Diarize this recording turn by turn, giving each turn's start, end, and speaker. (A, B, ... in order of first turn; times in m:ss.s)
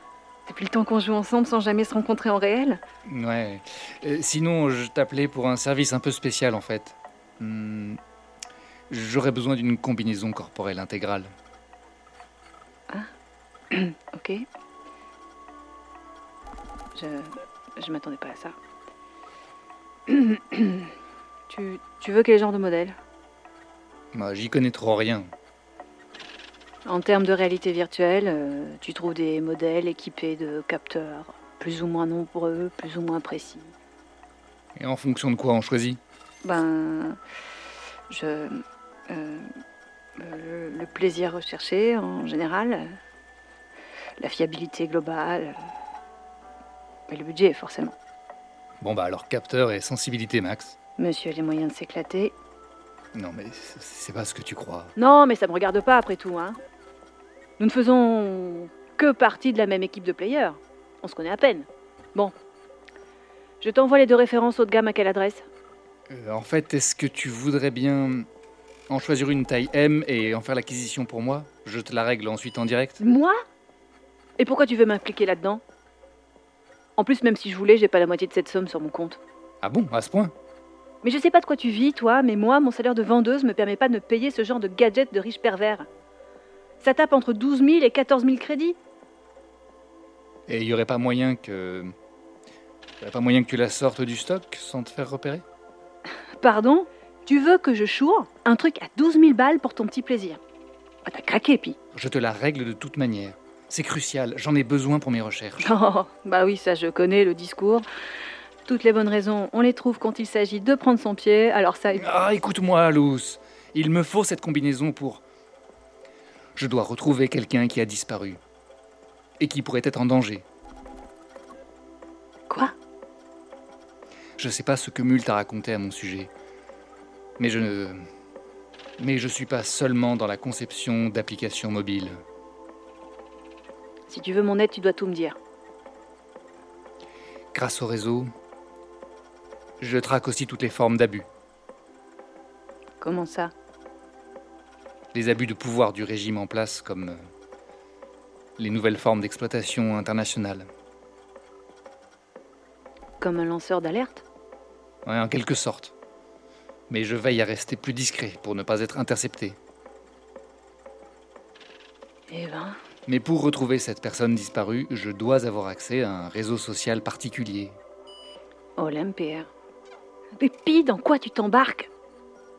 0:00.5-0:02.8 A
0:03.1-0:08.0 B
0:08.9-0:11.3 B
0:13.7-0:14.4 A
0:17.0-0:18.6 A
0:20.1-0:20.9 A
0:21.5-0:23.0 A
0:24.1-0:25.3 B
0:26.9-0:33.7 A
0:34.8-0:36.0 B
0:36.4-0:37.2 A
0:38.1-0:39.5 A
0:40.2-0:43.0 A
0:44.2-0:45.6 A
0:47.1-0:48.0 A
0:48.8-0:50.8 B
0:51.0-0:52.3 A
0:53.1-0:54.9 B
0:55.0-0:56.6 A
0:57.6-1:02.3 A
1:03.6-1:05.4 A
1:06.1-1:08.3 B
1:08.9-1:13.0 B
1:13.0-1:13.3 A
1:14.4-1:15.6 A
1:17.0-1:19.2 A
1:19.6-1:20.3 B
1:21.0-1:25.9 A
1:26.8-1:28.8 A
1:30.5-1:31.9 B
1:33.0-1:35.4 B
1:36.4-1:40.4 A
1:41.1-1:41.8 A
1:41.9-1:45.8 B
1:45.6-1:47.9 A
1:48.7-1:52.1 A
1:52.0-1:55.2 B
1:56.6-1:58.4 B
1:59.4-2:00.4 B
2:04.4-2:06.3 B
2:07.4-2:08.0 B
2:09.0-2:12.2 B
2:14.1-2:15.4 A
2:17.5-2:18.3 B
2:19.8-2:21.3 B
2:23.0-2:23.5 A
2:25.1-2:27.2 B
2:28.6-2:30.7 B
2:33.2-2:34.2 A
2:35.0-2:35.9 B
2:36.9-2:39.6 B
2:42.3-2:42.8 A
2:43.1-2:47.8 B
2:48.8-2:49.5 A
2:50.4-2:51.9 A